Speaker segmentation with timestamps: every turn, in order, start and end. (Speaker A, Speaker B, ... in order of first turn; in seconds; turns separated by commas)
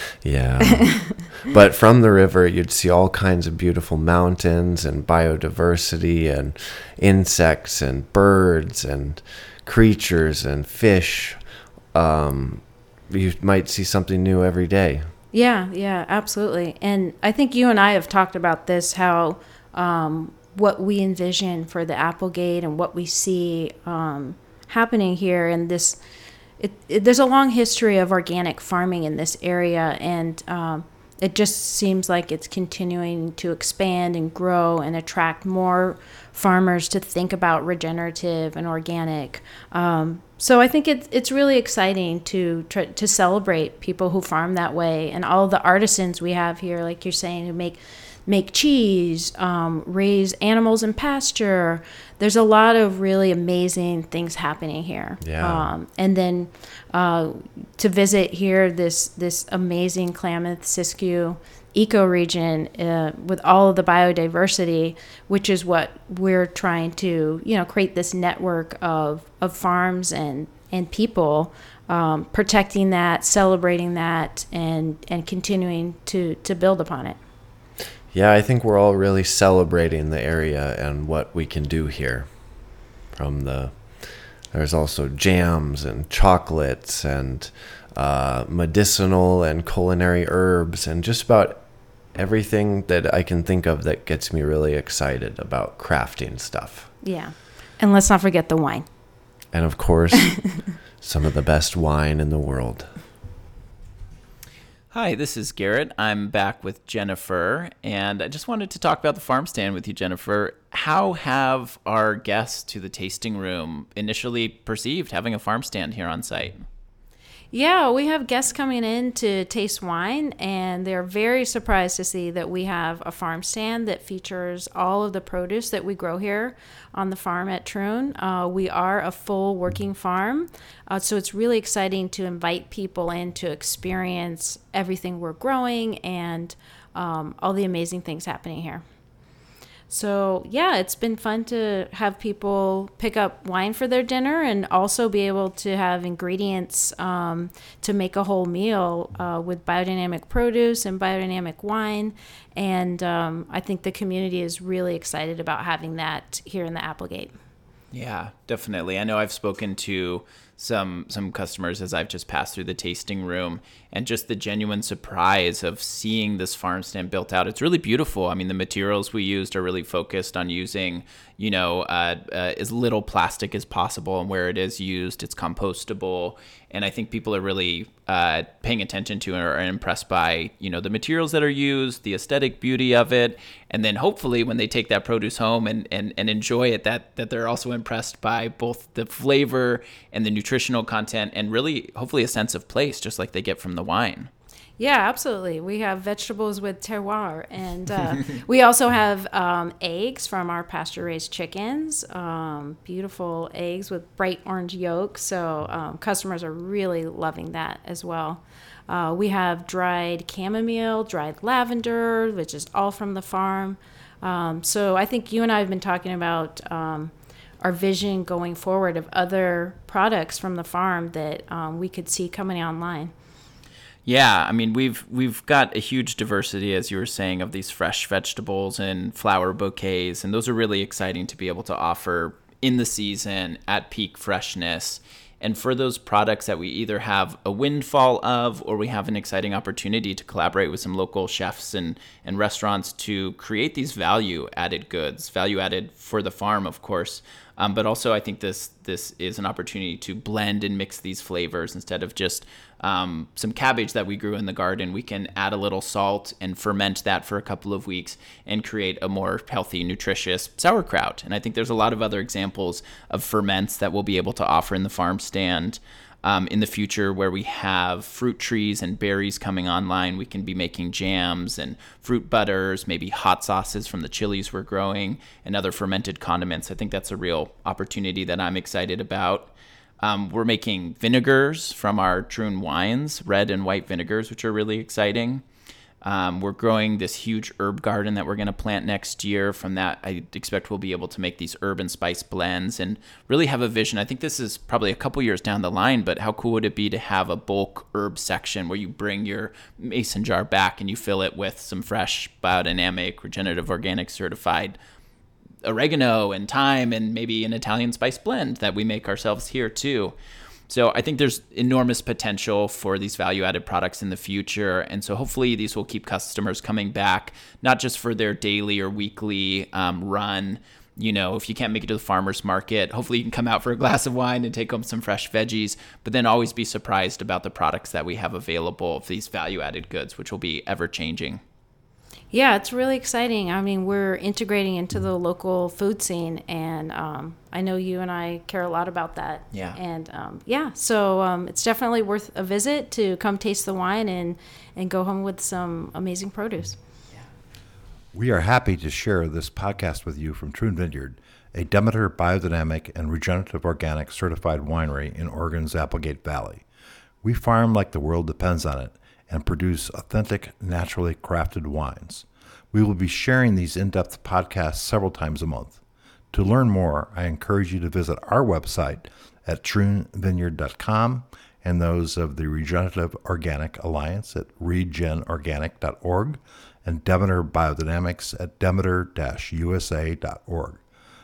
Speaker A: 0.2-11.4, Speaker B: 0.9-1.2, Speaker A: 11.9-15.1, Speaker B: 15.3-26.0, Speaker B: 26.6-77.2, Speaker A: 55.2-55.7, Speaker A: 78.1-82.3, Speaker A: 83.2-83.8, Speaker A: 84.5-91.6, Speaker A: 92.2-96.9, Speaker B: 97.0-98.9, Speaker A: 99.5-100.4, Speaker A: 101.0-102.9, Speaker C: 104.9-116.6, Speaker B: 117.5-138.8, Speaker B: 139.9-157.3, Speaker C: 157.9-194.3, Speaker B: 194.8-223.1, Speaker C: 224.1-285.4, Speaker C: 286.0-304.8, Speaker C: 305.6-310.1, Speaker C: 310.7-331.4, Speaker B: 332.3-346.8, Speaker C: 339.5-339.8, Speaker D: 348.1-356.6, Speaker D: 357.2-365.8, Speaker D: 366.3-380.8